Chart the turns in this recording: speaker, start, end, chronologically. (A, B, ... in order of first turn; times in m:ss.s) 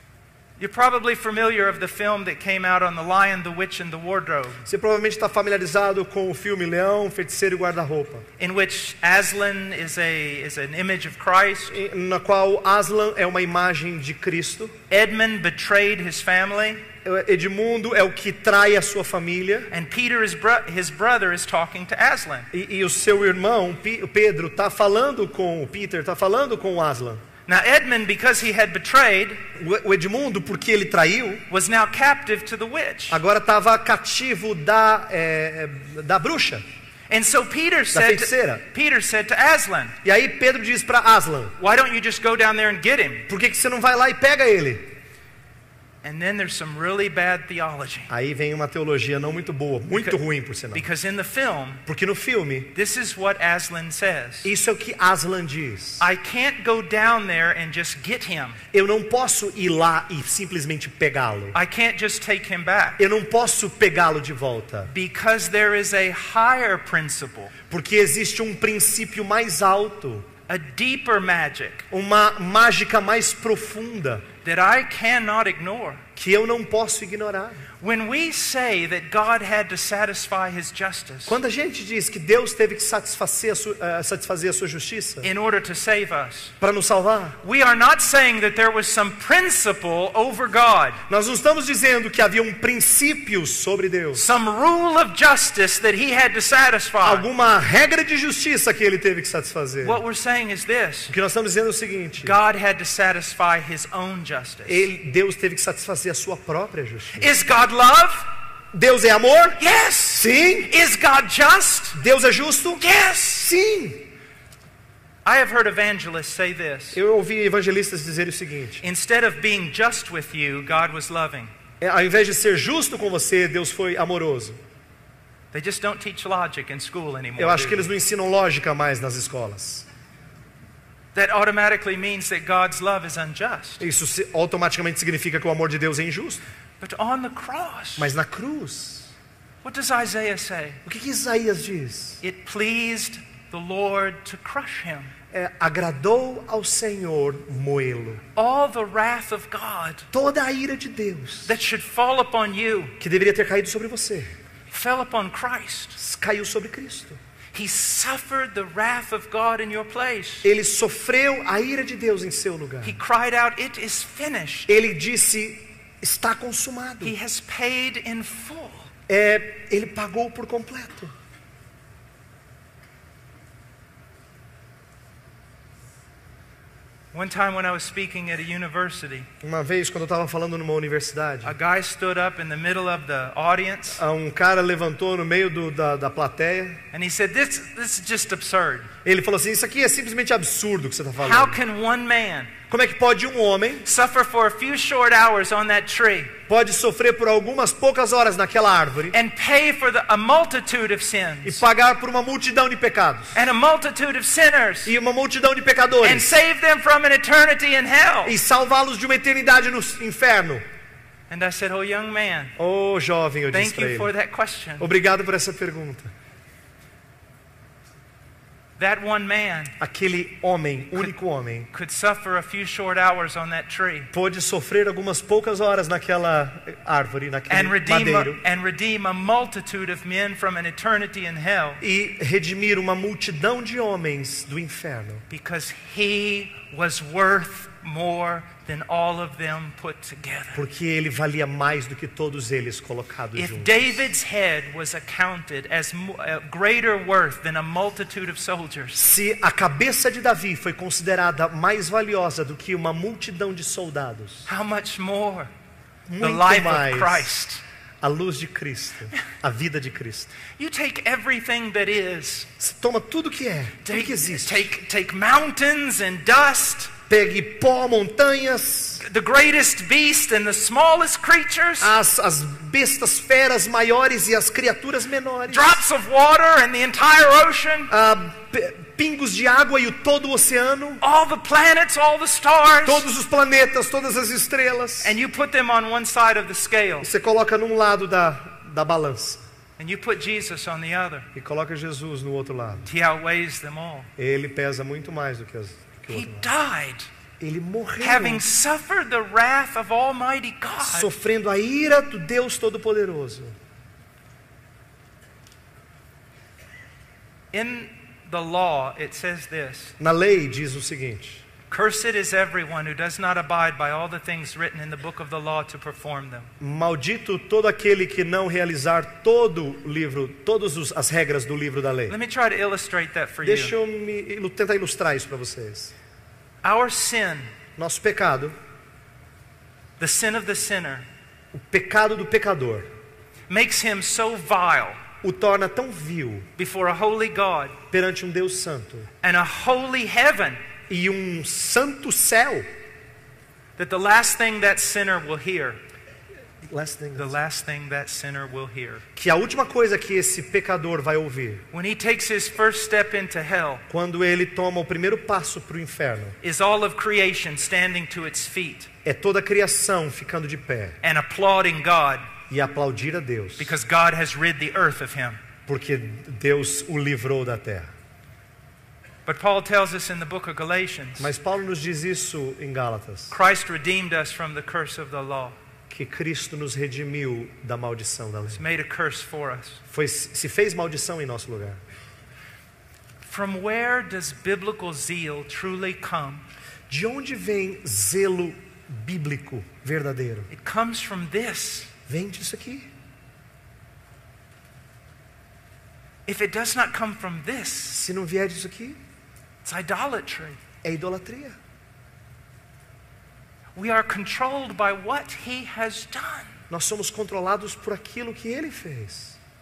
0:00.6-0:04.6 A
0:04.7-0:08.2 B
0:08.4-0:11.7 A
0:11.7-0:14.7 B
0:14.9-0:16.8 A
0:17.0-0:19.7 B
0:19.7-0:22.5 A
0:22.5-0:27.2 B
0:27.4-0:29.4 A
0:29.6-0:31.4 B
0:31.5-0:33.2 A
0:33.1-0:36.6 B
0:37.1-0:40.0 A
0:37.9-0:38.6 B
0:40.0-0:41.6 B
0:41.6-0:43.3 A
0:43.3-0:44.9 B
0:46.0-0:48.1 A
0:48.1-0:50.9 B
0:50.7-0:51.8 A
0:51.9-0:52.7 B
0:52.7-0:54.5 A
0:54.4-0:56.0 B
0:56.0-0:58.6 A
0:58.7-1:01.6 B
1:01.5-1:03.0 A
1:03.0-1:04.9 B
1:04.9-1:07.5 A
1:07.7-1:10.3 B
1:10.5-1:11.9 A
1:11.9-1:14.3 B
1:14.4-1:16.0 A
1:16.2-1:17.6 B
1:17.8-1:21.4 A
1:21.3-1:25.3 B
1:25.2-1:26.5 A
1:26.6-1:27.4 B
1:27.4-1:31.0 A
1:31.1-1:34.2 B
1:34.1-1:37.3 A
1:37.0-1:40.0 B
1:39.8-1:41.1 A
1:41.1-1:42.4 B
1:42.2-1:44.8 A
1:44.7-1:47.3 B
1:47.1-1:48.3 A
1:48.7-1:49.6 B
1:49.6-1:52.0 A
1:50.1-1:50.7 B
1:52.0-1:52.8 B
1:52.8-1:53.5 A
1:53.4-1:54.1 B
1:55.2-1:57.0 A
1:56.9-1:58.8 B
1:58.8-2:01.5 A
2:01.8-2:04.6 B
2:05.5-2:07.9 A
2:07.4-2:09.9 B
2:11.1-2:13.9 A
2:13.8-2:16.4 B
2:16.8-2:18.1 A
2:18.0-2:19.1 B
2:19.6-2:20.8 A
2:20.8-2:22.2 B
2:22.2-2:25.1 A
2:25.3-2:28.2 B
2:28.3-2:30.1 A
2:30.1-2:31.5 B
2:31.4-2:33.0 A
2:33.0-2:34.3 B
2:34.7-2:36.0 A
2:36.0-2:37.2 B
2:37.5-2:40.5 A
2:40.4-2:43.0 B
2:42.8-2:44.7 A
2:44.7-2:47.1 B
2:47.0-2:48.9 A
2:49.1-2:51.1 B
2:57.1-2:59.3 A
2:59.4-3:01.6 B
3:01.4-3:04.0 A
3:04.0-3:06.8 B
3:06.9-3:08.9 A
3:09.0-3:11.6 B
3:11.2-3:12.5 A
3:12.7-3:13.9 B
3:13.8-3:16.3 A
3:16.5-3:19.1 B
3:19.1-3:21.6 A
3:21.4-3:23.3 B
3:23.3-3:25.0 A
3:24.9-3:26.3 B
3:26.0-3:28.4 A
3:28.2-3:30.6 B
3:31.3-3:32.6 A
3:32.6-3:34.1 B
3:33.5-3:34.9 A
3:34.8-3:36.1 B
3:38.8-3:39.7 A
3:39.8-3:41.7 B
3:41.7-3:44.1 A
3:44.1-3:48.4 B
3:47.5-3:51.8 A
3:51.8-3:55.2 B
3:55.3-4:00.6 A
4:00.5-4:04.0 B
4:03.3-4:09.0 A
4:09.0-4:14.5 B
4:14.5-4:15.5 A
4:16.1-4:17.3 B
4:16.2-4:17.6 A
4:18.0-4:20.3 B
4:20.6-4:22.5 A
4:22.6-4:24.7 B
4:23.8-4:26.9 A
4:27.1-4:29.0 B
4:29.0-4:31.9 A
4:31.8-4:35.8 B
4:35.5-4:37.9 A
4:37.9-4:41.0 B
4:41.0-4:43.0 A
4:42.8-4:45.2 B
4:45.0-4:47.1 A
4:47.0-4:49.4 B
4:49.8-4:51.3 A
4:51.3-4:52.9 B
4:52.8-4:54.1 A
4:54.2-4:56.5 B
4:56.1-4:57.1 A
4:57.4-4:58.4 B
4:58.0-5:01.1 A
5:00.8-5:03.6 B
5:07.5-5:09.9 A
5:10.0-5:11.4 B
5:11.7-5:16.5 A
5:16.6-5:22.1 B
5:22.1-5:23.8 A
5:23.4-5:25.9 B
5:26.6-5:27.5 A
5:27.8-5:28.6 B
5:30.0-5:31.0 A
5:31.5-5:32.9 B
5:33.5-5:35.0 A
5:35.2-5:36.5 B
5:36.6-5:37.8 A
5:37.9-5:39.1 B
5:39.2-5:40.6 A
5:40.9-5:42.6 B
5:43.8-5:45.8 A
5:46.7-5:47.3 B
5:47.2-5:49.0 A
5:49.2-5:51.6 B
5:51.7-5:53.8 A
5:53.9-5:56.4 B
5:56.4-5:58.9 A
5:59.0-6:01.0 B
6:01.0-6:02.3 A
6:02.5-6:03.7 B
6:03.6-6:05.4 A
6:05.7-6:07.9 B
6:09.3-6:11.3 A
6:11.2-6:13.3 B
6:13.3-6:15.6 A
6:15.9-6:18.6 B
6:18.5-6:19.8 A
6:19.9-6:21.8 B
6:23.2-6:26.4 A
6:26.9-6:30.5 B
6:30.5-6:31.9 A
6:32.1-6:32.9 B
6:36.3-6:38.0 A
6:37.9-6:39.0 B
6:39.6-6:40.6 A
6:40.8-6:41.6 B
6:43.8-6:46.6 A
6:46.7-6:49.4 B